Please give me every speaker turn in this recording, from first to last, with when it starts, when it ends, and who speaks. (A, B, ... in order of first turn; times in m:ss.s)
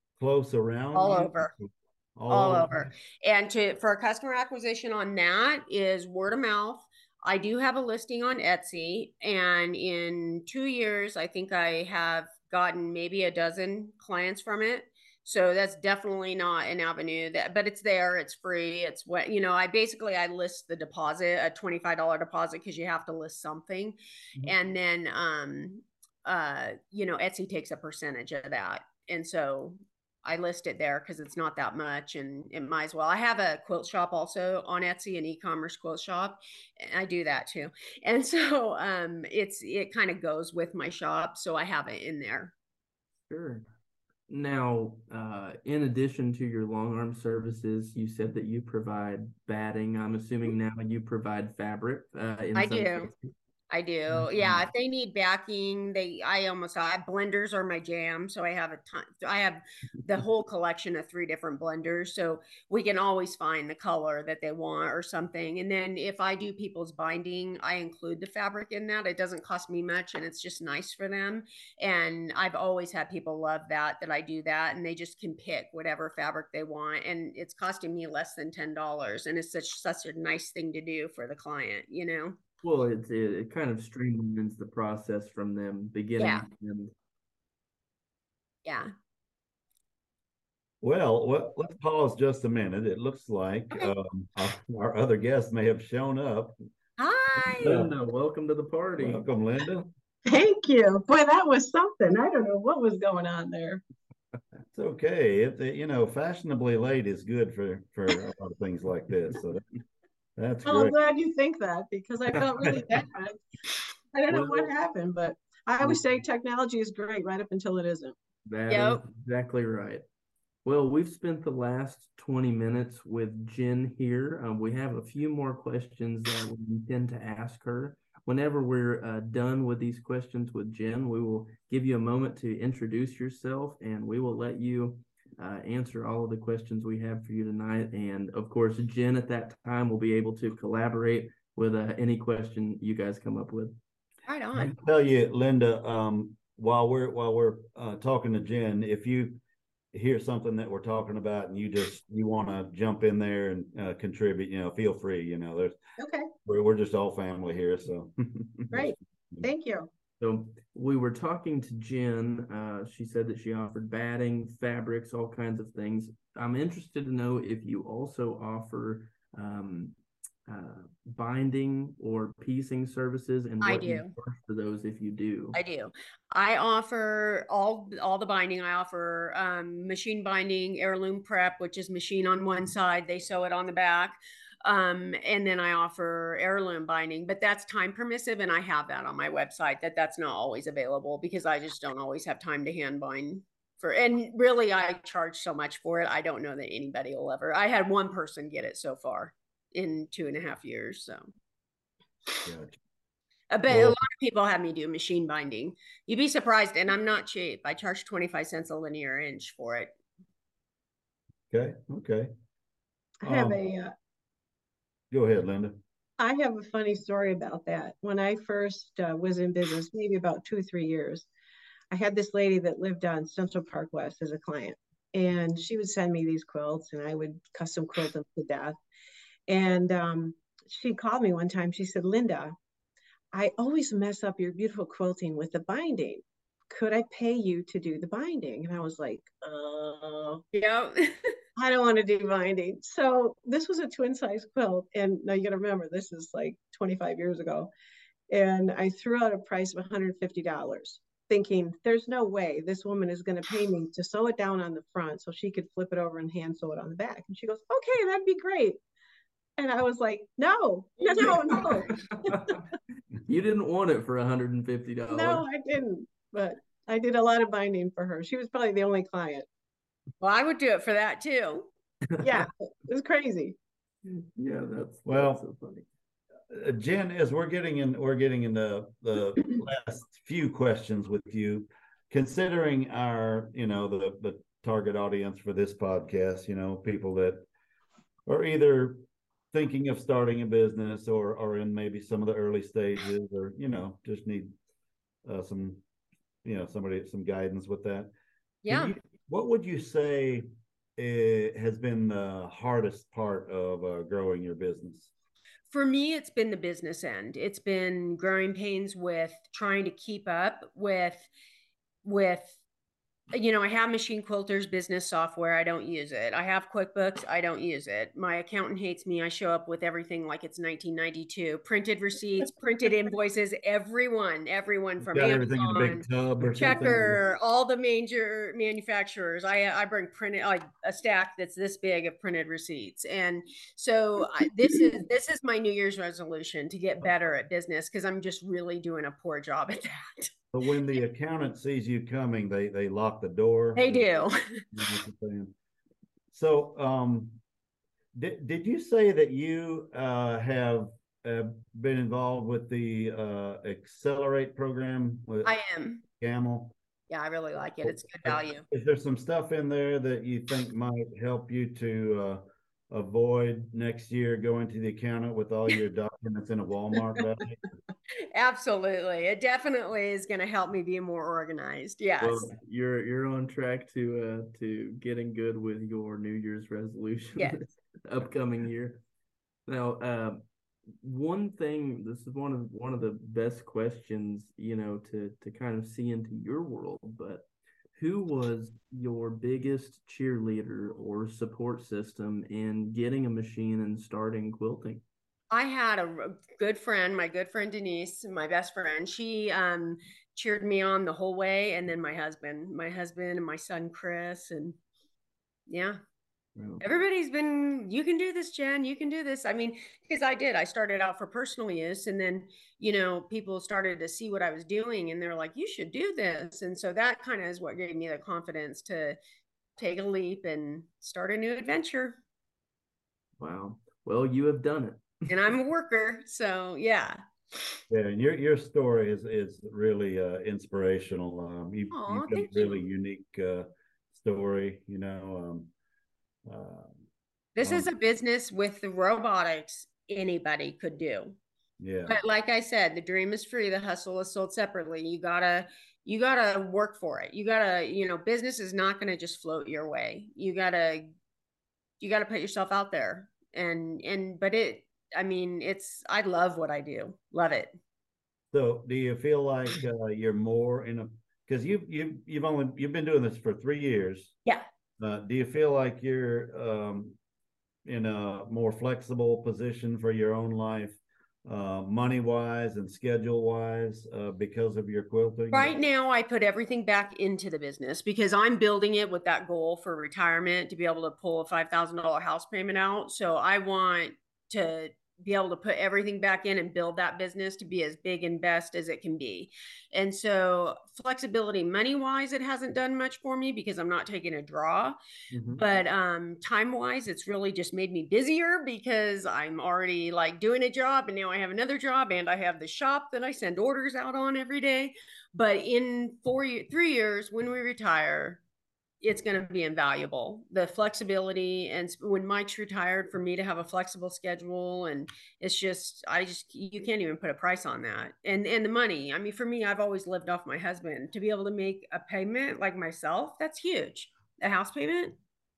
0:00.2-0:02.9 A
0:00.9-0:01.5 B
0:02.3-0:42.5 B
0:43.3-0:43.6 C
0:44.3-0:53.3 C
0:52.5-0:53.1 B
0:53.7-1:22.4 B
0:54.1-0:54.6 C
1:22.6-1:26.9 C
1:26.2-1:26.5 B
1:28.6-1:28.9 B
1:30.8-1:36.6 A
1:37.0-1:37.8 B
1:37.6-1:37.9 A
1:37.6-1:39.2 C
1:39.0-1:39.9 A
1:40.2-1:43.8 D
1:44.7-1:49.6 A
1:50.4-1:50.9 A
1:50.6-1:53.4 D
1:54.1-1:58.1 D
1:54.3-1:54.7 C
1:58.4-2:00.0 C
1:58.7-1:59.0 B
2:00.6-2:23.8 C
2:24.3-2:24.7 B
2:24.5-2:29.4 A
2:29.9-2:35.8 A
2:36.0-2:36.3 D
2:36.4-2:39.5 A
2:38.7-2:39.9 D
2:40.2-2:55.6 C
2:53.6-2:54.1 B
2:55.5-3:21.3 B
3:22.4-3:22.8 A
3:23.5-3:29.9 B
3:23.7-3:24.0 A
3:31.5-3:32.3 A
3:33.2-3:33.9 D
3:33.2-3:33.6 A
3:35.1-3:35.8 A
3:36.2-3:41.3 D
3:41.9-3:48.7 D
3:49.5-3:52.6 D
3:53.3-4:00.4 D
4:00.5-4:01.4 B
4:01.6-4:07.7 D
4:08.3-4:18.8 D
4:19.6-4:22.6 D
4:21.0-4:21.5 B
4:22.2-4:22.5 C
4:23.2-4:25.4 C
4:25.1-4:29.5 D
4:30.2-4:31.7 B
4:32.1-4:32.4 C
4:32.2-4:33.5 D
4:34.0-4:35.8 C
4:35.0-4:35.4 A
4:36.5-4:47.5 A
4:48.3-4:54.5 A
4:55.2-4:55.8 A
4:56.4-4:58.1 A
4:58.6-4:58.9 B
4:58.7-5:00.4 A
5:01.0-5:05.1 A
5:05.7-5:11.3 B
5:12.0-5:12.6 B
5:13.3-5:40.3 B
5:25.1-5:27.2 A
5:40.5-5:44.1 A
5:43.7-5:44.6 B
5:44.7-5:45.5 A
5:46.3-5:47.4 A
5:48.1-5:55.6 A
5:55.4-5:56.0 B
5:56.2-5:56.7 A
5:57.1-5:58.6 B
5:57.8-6:07.6 A
6:08.3-6:12.5 B
6:12.2-6:19.0 C
6:19.6-6:20.4 C
6:21.0-6:35.0 C
6:35.5-6:44.8 B
6:45.7-6:46.0 B
6:46.6-6:46.8 C
6:46.8-6:59.2 B
6:59.8-7:02.2 B
7:03.4-7:05.2 C
7:05.3-7:07.8 B
7:07.9-7:15.7 A
7:11.9-7:12.8 B
7:16.4-7:17.0 A
7:17.6-7:21.4 B
7:17.6-7:17.9 A
7:21.8-7:22.2 A
7:22.1-7:31.1 B
7:32.0-7:37.8 B
7:38.5-7:44.4 A
7:45.0-7:47.2 A
7:47.8-7:55.7 A
7:55.5-8:15.0 B
8:15.3-8:15.6 C
8:15.5-8:28.4 B
8:29.0-8:45.2 B